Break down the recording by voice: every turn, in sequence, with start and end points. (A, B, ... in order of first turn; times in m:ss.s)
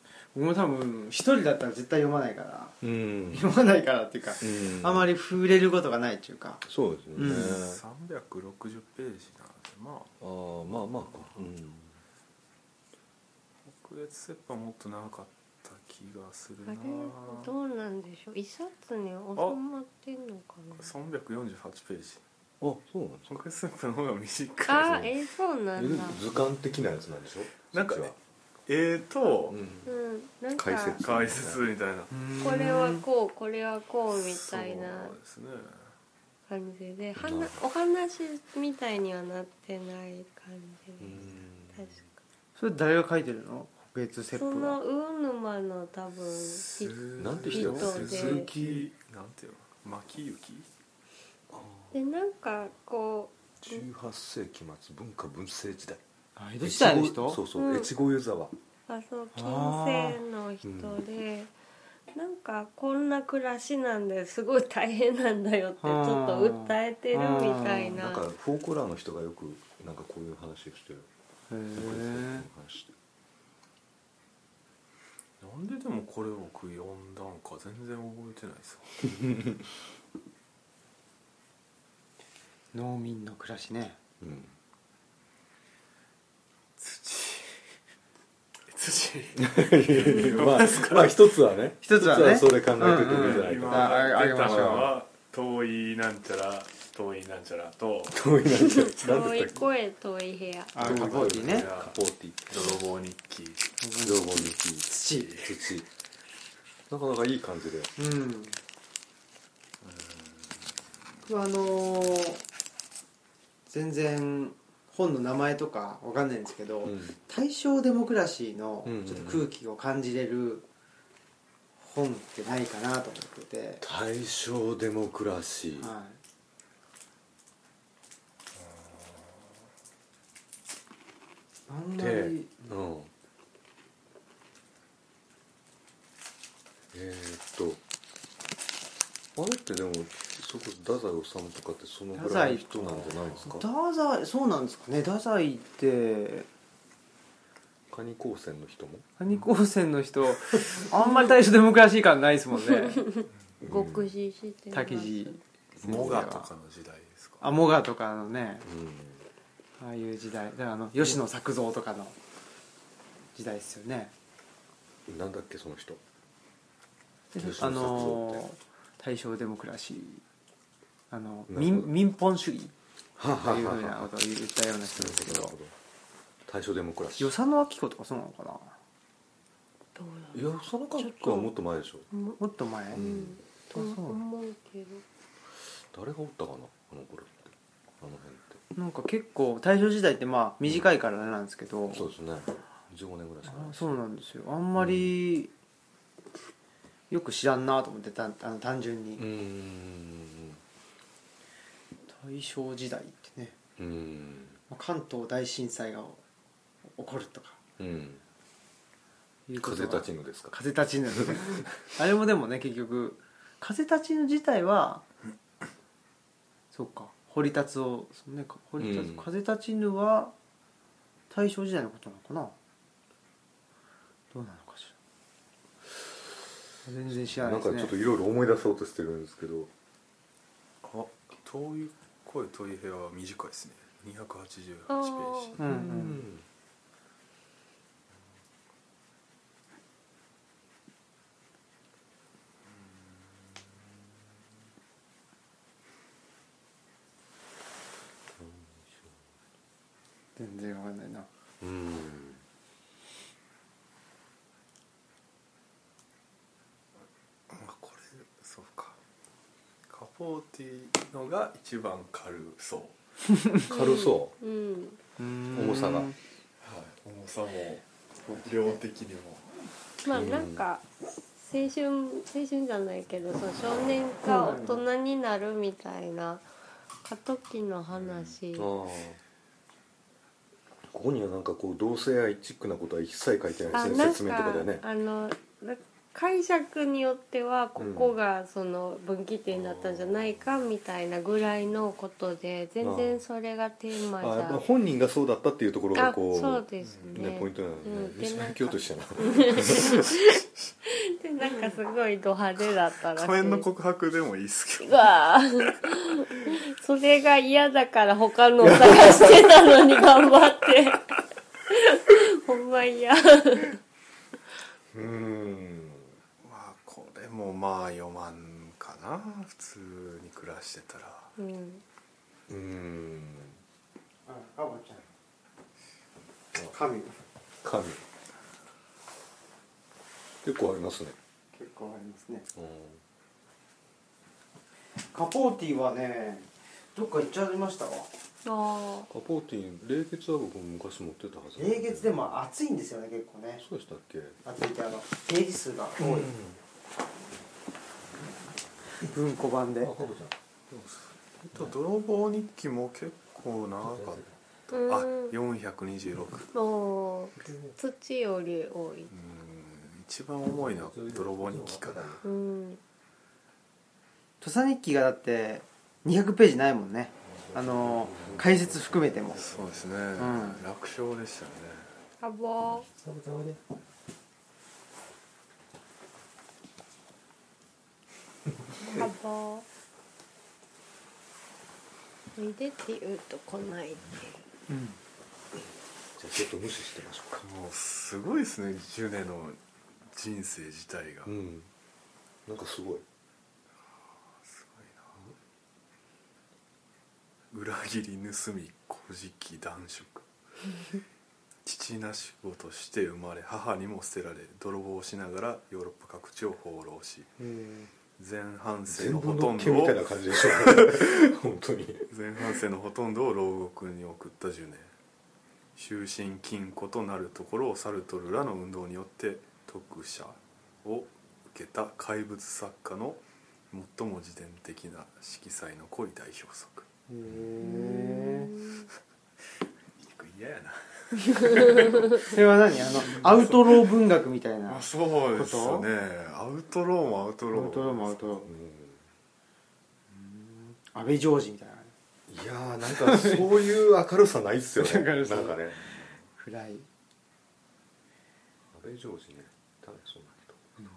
0:00.3-0:02.8 A
0:02.8-0:03.5 B
0:03.3-0:06.6 A
0:04.4-0:05.1 B
0:06.6-0:07.8 B
0:07.2-0:07.6 A
0:07.2-0:10.1 C
0:10.2-0:12.0 B
0:13.7-0:17.5 C
0:16.6-0:20.9 D
0:20.7-0:22.2 C
0:22.6-0:23.4 B
0:23.3-0:25.1 C
0:24.7-0:26.2 D
0:24.8-0:25.1 B
0:25.8-0:28.1 B
0:27.7-0:29.6 C
0:29.5-0:29.9 B
0:29.8-0:31.0 D
0:30.5-0:31.6 B
0:31.0-0:32.1 C
0:32.1-0:33.0 A
0:32.4-0:35.1 D
0:34.1-0:35.9 C
0:36.5-0:42.1 D
0:37.2-0:37.6 B
0:41.0-0:41.9 B
0:42.6-0:44.8 A
0:44.3-0:48.5 D
0:46.3-0:50.7 C
0:47.2-0:48.9 B
0:51.5-0:51.9 B
0:51.9-0:53.8 D
0:53.6-0:56.0 B
0:56.4-0:57.4 A
0:56.6-0:58.5 B
0:57.5-0:57.9 D
0:58.9-1:01.5 D
0:59.3-1:00.2 A
1:00.6-1:01.0 B
1:02.1-1:08.2 D
1:05.8-1:08.0 A
1:07.9-1:11.1 B
1:11.5-1:12.5 A
1:11.7-1:12.9 B
1:15.4-1:19.1 C
1:19.2-1:19.5 B
1:22.7-1:24.0 A
1:24.2-1:24.5 B
1:26.8-1:27.6 C
1:28.7-1:31.2 C
1:29.3-1:34.9 B
1:31.8-1:34.9 A
1:32.8-1:38.2 C
1:38.1-1:39.6 B
1:38.5-1:40.8 D
1:40.7-1:41.7 A
1:40.8-1:42.0 C
1:40.8-1:42.8 B
1:42.5-1:43.7 C
1:43.8-1:45.3 A
1:44.0-1:45.9 B
1:45.0-1:45.5 C
1:46.9-1:47.9 B
1:48.0-1:48.6 A
1:49.8-1:50.6 C
1:51.2-1:52.4 A
1:53.7-2:00.6 A
1:56.8-1:57.2 B
1:58.8-1:59.5 B
2:01.8-2:03.8 A
2:03.8-2:05.9 B
2:05.8-2:06.2 A
2:08.6-2:09.3 C
2:11.7-2:12.7 A
2:12.0-2:13.1 B
2:16.9-2:17.8 B
2:19.4-2:23.6 B
2:22.1-2:26.5 A
2:27.9-2:29.0 B
2:29.2-2:33.0 A
2:31.0-2:31.3 D
2:32.9-2:35.4 D
2:33.6-2:34.1 B
2:34.7-2:36.5 A
2:35.8-2:37.4 C
2:37.4-2:38.7 A
2:38.6-2:39.2 B
2:39.8-2:42.2 A
2:43.3-2:44.1 A
2:45.1-2:46.0 B
2:47.3-2:50.2 A
2:47.4-2:48.4 B
2:51.1-2:52.7 A
2:51.5-2:51.9 B
2:53.2-2:54.1 B
2:53.4-2:55.5 A
2:54.8-2:55.7 B
2:56.4-2:57.3 B
2:57.2-2:58.8 A
2:59.9-3:01.5 D
3:00.3-3:02.1 B
3:02.1-3:02.4 D
3:02.4-3:03.0 A
3:02.9-3:03.4 B
3:02.9-3:05.0 D
3:03.7-3:04.2 A
3:05.9-3:08.6 B
3:08.7-3:12.1 A
3:11.9-3:13.9 B
3:13.4-3:15.5 A
3:14.8-3:15.1 B
3:17.1-3:19.2 A
3:19.2-3:20.6 B
3:22.1-3:23.5 A
3:23.8-3:24.6 B
3:24.7-3:26.2 A
3:26.9-3:27.6 A
3:27.8-3:28.2 B
3:29.5-3:35.0 A
3:29.6-3:30.6 B
3:31.1-3:31.6 B
3:36.7-3:40.3 A
3:38.8-3:39.3 B
3:41.3-3:42.5 A
3:44.3-3:44.9 A
3:46.8-3:47.9 A
3:47.4-3:49.7 B
3:50.8-3:55.6 C
3:54.9-3:55.6 D
3:55.6-3:56.2 A
3:55.6-3:56.4 B
4:08.3-4:09.2 B
4:10.4-4:11.3 A
4:11.6-4:12.4 B
4:17.5-4:19.0 C
4:19.9-4:23.0 C
4:23.7-4:25.0 D
4:23.7-4:24.3 B
4:25.2-4:26.2 A
4:25.5-4:26.1 B
4:26.6-4:29.5 C
4:28.2-4:28.8 A
4:30.0-4:36.5 D
4:30.1-4:30.6 B
4:34.2-4:34.8 A
4:37.0-4:38.7 D
4:37.9-4:38.4 C
4:38.5-4:39.2 B
4:40.9-4:44.8 B
4:43.7-4:54.6 D
4:47.8-4:48.1 B
4:49.6-4:50.0 B
4:52.8-4:53.2 B
4:54.2-5:00.1 B
4:55.9-5:03.6 D
4:56.8-4:57.2 C
5:03.1-5:05.2 C
5:04.8-5:13.8 D
5:08.6-5:09.5 B
5:14.9-5:16.1 B
5:16.4-5:21.3 C
5:21.4-5:21.8 D
5:22.5-5:23.6 B
5:24.2-5:25.0 A
5:26.7-5:27.2 A
5:27.6-5:28.0 B
5:30.4-5:31.2 B
5:31.5-5:32.4 A
5:32.5-5:33.0 B
5:35.0-5:38.1 A
5:38.4-5:39.1 D
5:39.1-5:42.4 B
5:41.6-5:43.6 A
5:43.6-5:44.4 B
5:44.4-5:46.3 A
5:46.0-5:46.6 B
5:49.0-5:49.9 A
5:49.8-5:50.3 B
5:50.7-5:56.5 C
5:53.8-5:54.3 B
5:54.7-5:55.4 D
5:56.5-5:59.1 D
5:57.4-5:57.7 B
5:59.1-6:02.2 C
6:00.6-6:02.2 B
6:02.2-6:02.8 D
6:04.4-6:09.4 A
6:07.3-6:09.9 B
6:09.4-6:11.9 C
6:10.2-6:10.6 A
6:12.2-6:12.9 D
6:12.9-6:13.6 B
6:18.8-6:19.6 D
6:22.3-6:24.4 D
6:24.7-6:25.0 A
6:26.2-6:27.4 B
6:27.4-6:31.3 C
6:31.2-6:31.7 B
6:32.4-6:33.0 B
6:34.4-6:35.1 C
6:37.5-6:40.2 C
6:41.6-6:47.3 C
6:47.4-6:47.9 A
6:48.2-6:51.1 C
6:48.9-6:52.1 B
6:52.1-6:54.9 C
6:55.8-7:06.8 C
7:07.1-7:08.5 A
7:07.6-7:08.9 D
7:10.0-7:13.9 C
7:11.5-7:12.0 D
7:12.2-7:15.9 A
7:14.7-7:18.4 C
7:17.5-7:18.5 A
7:18.4-7:19.0 B
7:20.1-7:21.9 A
7:22.3-7:26.0 B
7:22.8-7:23.5 A
7:24.8-7:25.7 A
7:26.3-7:26.8 A
7:28.7-7:30.7 B